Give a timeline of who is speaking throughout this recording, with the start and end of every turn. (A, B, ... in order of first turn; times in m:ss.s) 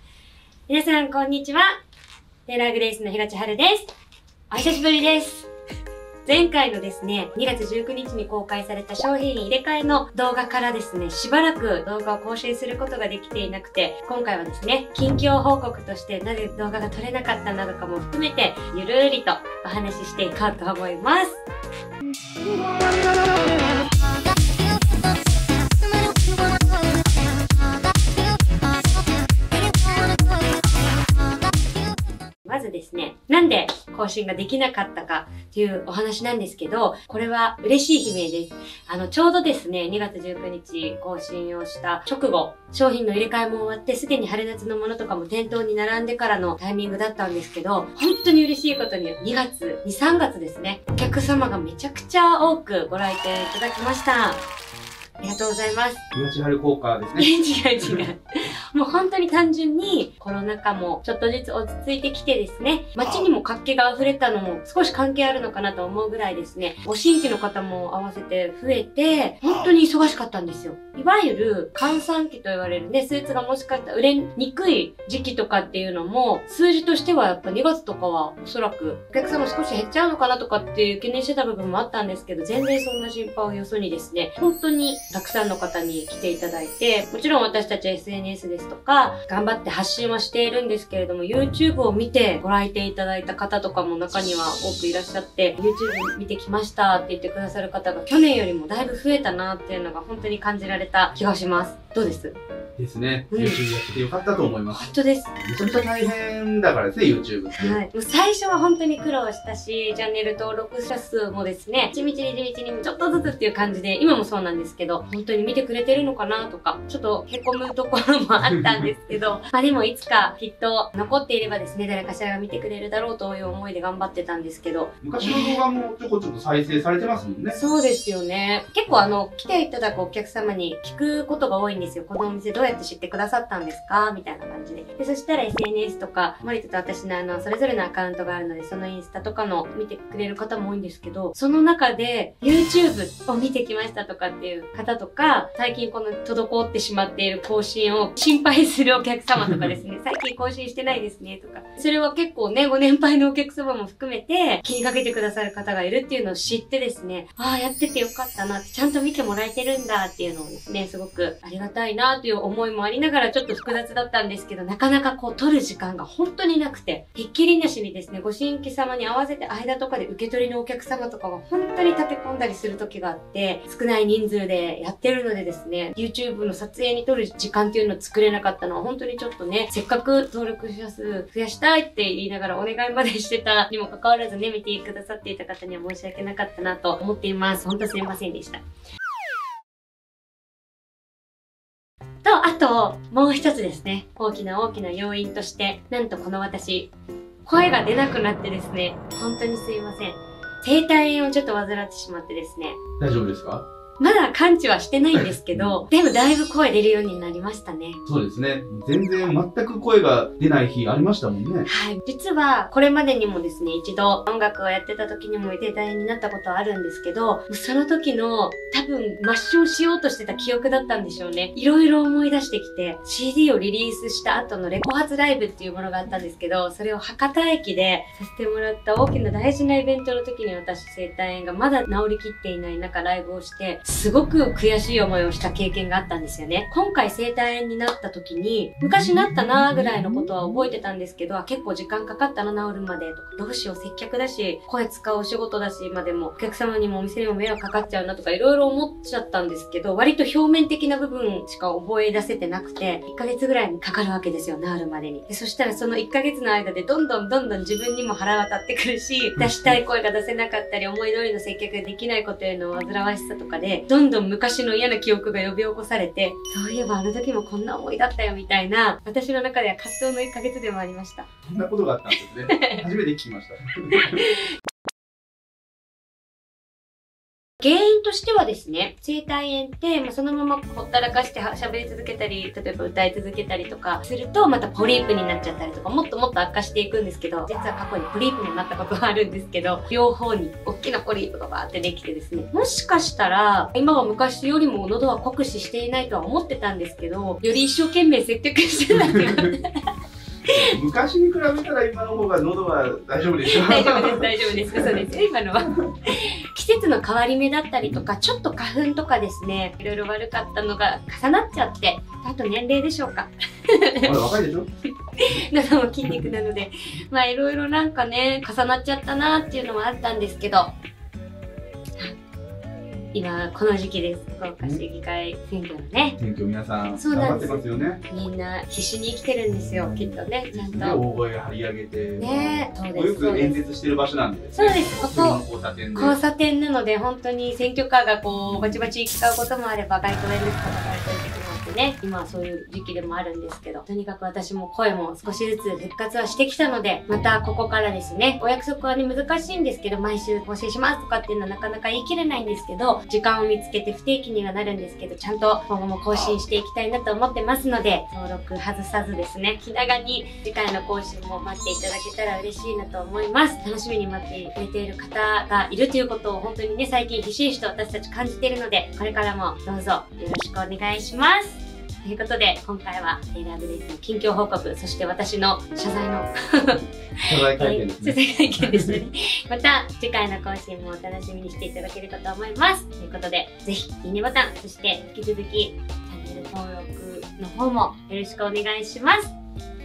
0:00.7-0:01.7 A
0:02.5-0:03.9 A
0:04.5-0:05.5 A
0:06.2-0:21.4 A
0:32.5-0:54.4 A
0:55.2-0:56.0 A
0:56.1-0:57.3 B
0:57.2-0:58.2 A
0:58.7-1:42.4 A
1:42.8-1:47.8 B
1:43.3-1:43.6 A
1:44.7-1:45.3 A
1:47.6-2:05.6 A
2:05.0-2:07.6 B
2:07.5-3:08.6 A
3:12.2-3:16.9 A
3:17.4-3:22.8 A
3:23.0-3:23.6 B
3:24.0-3:28.0 A
3:25.1-3:25.7 B
3:28.1-3:31.7 B
3:31.7-4:31.3 A
4:31.5-4:34.2 B
4:32.5-4:32.8 A
4:33.9-4:34.5 A
4:37.6-4:59.8 A
4:59.0-4:59.5 B
5:00.5-5:05.1 B
5:03.5-5:14.1 A
5:14.0-5:14.7 B
5:15.2-5:20.7 A
5:23.1-5:26.2 A
5:26.2-5:28.0 B
5:27.0-5:31.0 A
5:29.8-5:36.2 B
5:32.2-5:33.6 A
5:34.6-5:35.4 A
5:35.9-6:29.3 A
6:17.3-6:19.0 B